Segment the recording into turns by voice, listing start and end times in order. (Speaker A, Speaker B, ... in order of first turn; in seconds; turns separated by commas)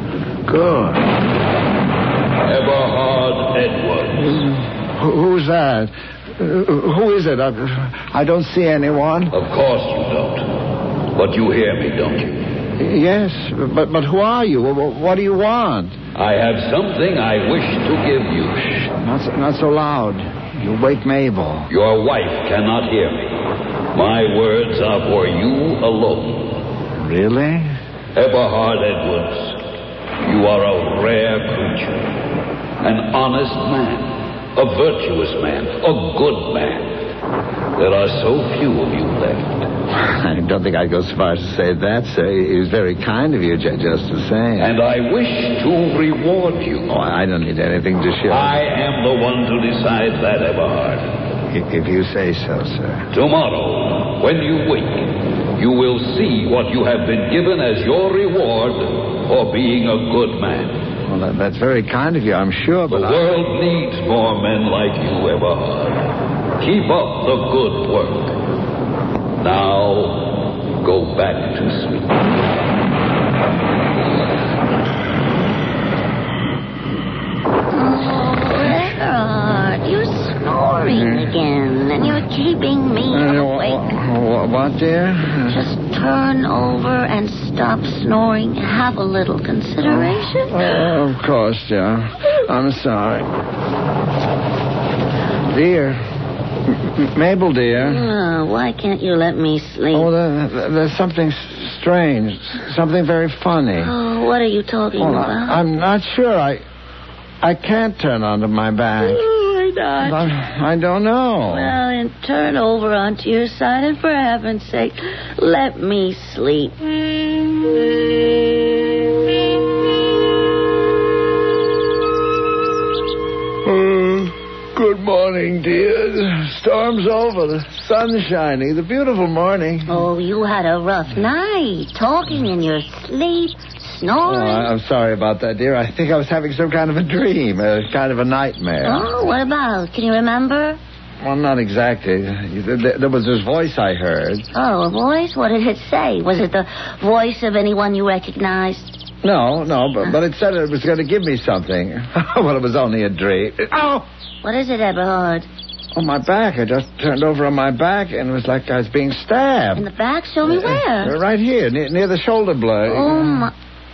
Speaker A: 0.5-1.1, Speaker B: 2.6-3.8, Speaker A: 4.5-9.3, Speaker B: 9.5-10.3, Speaker B: 11.2-12.2, Speaker A: 12.8-16.0, Speaker B: 16.2-18.5, Speaker A: 18.9-21.7, Speaker B: 21.8-23.2, Speaker B: 24.0-26.3, Speaker A: 27.0-27.7, Speaker B: 28.2-29.3, Speaker B: 30.3-31.7, Speaker B: 32.8-34.0, Speaker B: 34.6-36.6, Speaker B: 37.8-39.1, Speaker A: 39.9-44.7, Speaker B: 44.7-46.8, Speaker A: 46.9-48.6, Speaker B: 48.5-51.0, Speaker A: 51.5-53.1, Speaker B: 53.2-55.0, Speaker B: 55.6-60.7, Speaker A: 61.1-63.3, Speaker B: 62.9-65.8, Speaker B: 66.6-68.3, Speaker B: 69.4-70.2, Speaker B: 70.8-71.8, Speaker C: 77.7-83.8, Speaker A: 80.9-81.3, Speaker A: 83.1-85.6, Speaker C: 85.5-90.9, Speaker A: 89.9-93.3, Speaker A: 95.5-96.0, Speaker A: 96.7-98.1, Speaker C: 97.8-100.1, Speaker A: 99.9-103.9, Speaker C: 103.8-105.6, Speaker A: 105.0-106.6, Speaker A: 107.4-109.2, Speaker C: 109.0-110.3, Speaker A: 110.0-111.8, Speaker C: 111.5-116.8, Speaker A: 123.7-130.1, Speaker C: 129.9-134.7, Speaker A: 134.3-139.1, Speaker C: 138.8-140.8, Speaker A: 141.2-144.5, Speaker C: 144.5-149.0, Speaker A: 149.2-154.1, Speaker C: 154.4-155.5, Speaker A: 155.9-159.9, Speaker C: 159.8-161.1, Speaker A: 160.4-163.4, Speaker C: 162.9-163.5